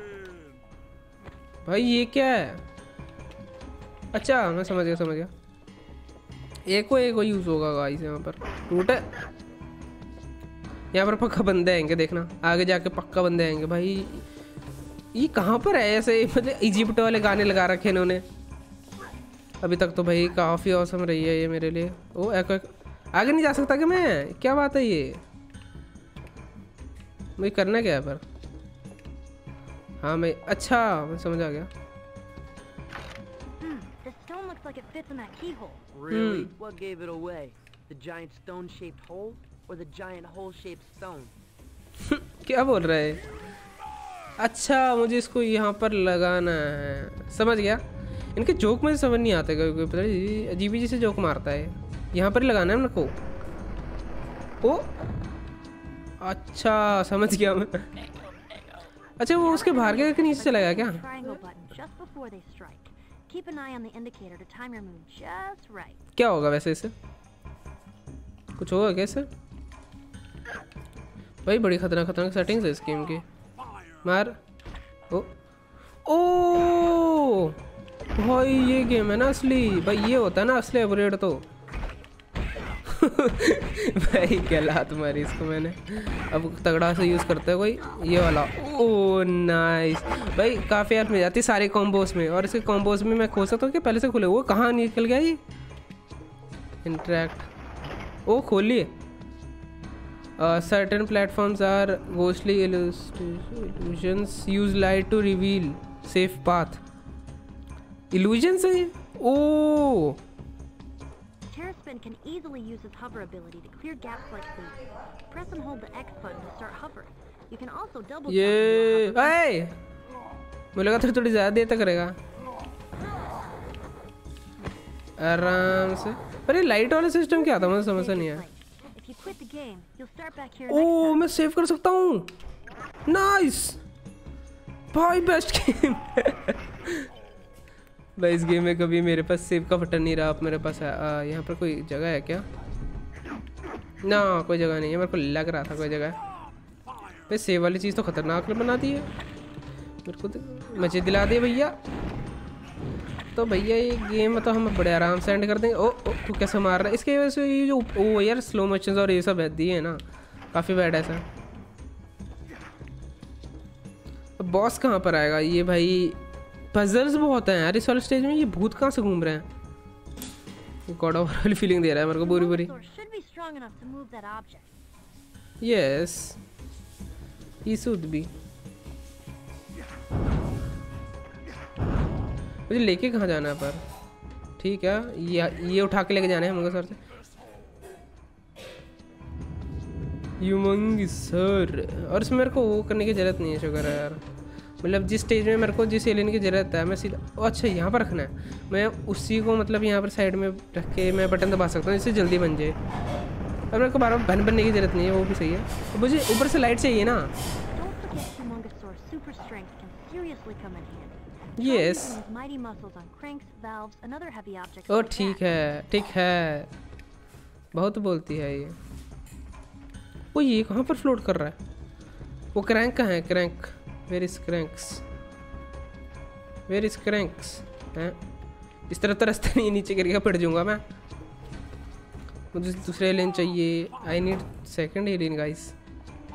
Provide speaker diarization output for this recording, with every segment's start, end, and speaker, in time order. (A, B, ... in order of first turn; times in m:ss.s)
0:01.6-0:02.6 A
0:04.1-0:05.3 A
0:06.6-0:09.0 A
0:10.9-0:14.2 A
0:15.1-0:18.2 A
0:19.6-0:25.2 A
0:27.4-0:28.2 A
0:30.0-0:31.7 A
0:33.6-0:35.8 B
0:35.9-0:41.3 C
0:36.1-0:36.5 A
0:42.0-0:43.2 A
0:44.4-0:47.8 A
0:48.3-0:53.1 A
0:54.6-0:54.9 A
0:56.2-0:57.9 A
0:59.2-1:01.0 A
0:59.4-1:06.0 B
1:06.2-1:06.9 A
1:08.6-1:09.3 A
1:11.4-1:13.2 A
1:14.0-1:14.4 A
1:16.0-1:17.6 A
1:18.1-1:21.4 A
1:22.9-1:35.4 A
1:36.8-1:37.5 A
1:38.3-1:38.9 A
1:40.4-1:46.8 A
1:48.1-1:50.2 A
1:51.5-1:59.4 B
1:58.3-1:59.7 A
2:00.7-2:02.2 A
2:05.2-2:08.4 A
2:07.3-2:11.3 B
2:10.7-2:12.3 A
2:13.0-2:13.8 A
2:14.9-2:17.1 A
2:18.2-2:22.4 A
2:24.0-2:26.2 A
2:27.3-2:29.1 A
2:30.0-2:31.7 A
2:33.3-2:40.0 A
2:40.5-2:41.2 A
2:44.4-2:46.2 A
2:46.7-2:49.4 A
2:50.9-2:52.7 A
2:52.2-2:54.7 B
2:55.6-2:56.4 A
2:57.6-2:58.3 A
3:02.7-3:03.8 A
3:04.6-3:07.0 A
3:10.4-3:14.2 A
3:14.8-3:22.8 A
3:23.7-3:27.3 A
3:27.7-3:35.4 B
3:31.6-3:32.2 A
3:34.9-3:36.7 A
3:37.7-3:38.8 A
3:40.3-3:41.6 A
3:42.5-3:45.0 A
3:46.7-3:48.2 A
3:48.9-3:50.8 A
3:52.5-3:55.7 A